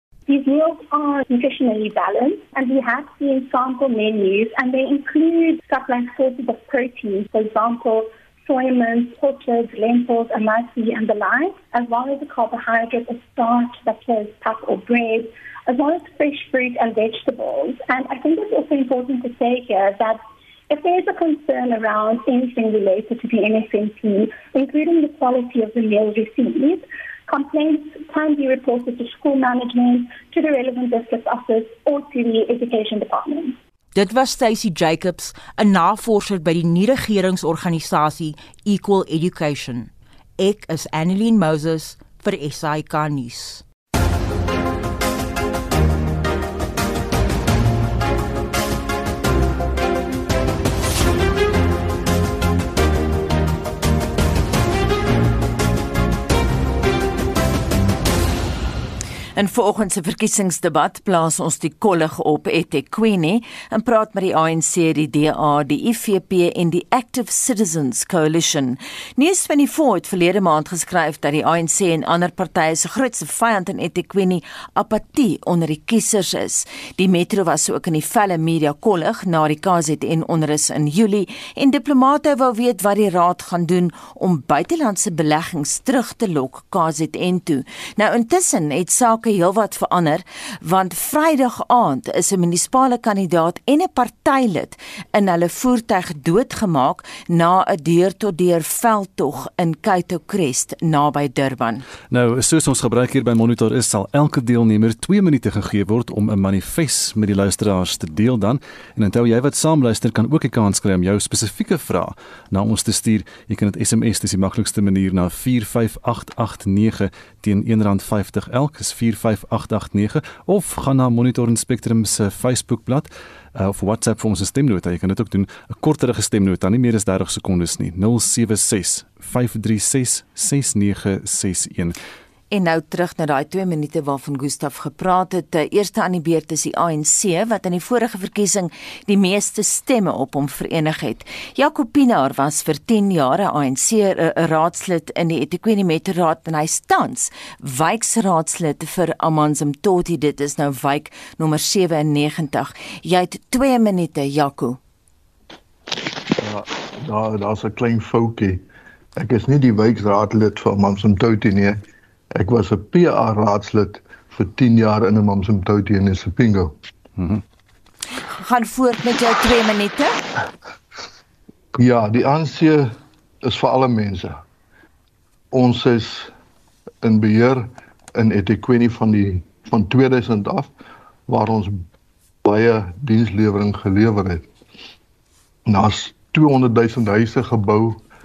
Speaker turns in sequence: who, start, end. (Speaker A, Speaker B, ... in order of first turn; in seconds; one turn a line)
Speaker A: 0.3-33.6
Speaker B: 33.9-43.6
Speaker C: 59.4-101.8
Speaker D: 102.1-131.9
Speaker C: 132.5-154.8
Speaker E: 156.4-158.7
Speaker E: 159.2-161.8
Speaker E: 162.4-166.8
Speaker C: 168.4-170.2
Speaker E: 171.8-174.4
Speaker E: 175.5-176.3
Speaker E: 177.0-180.7
Speaker E: 181.3-181.8
Speaker E: 182.4-184.5
Speaker E: 185.7-188.0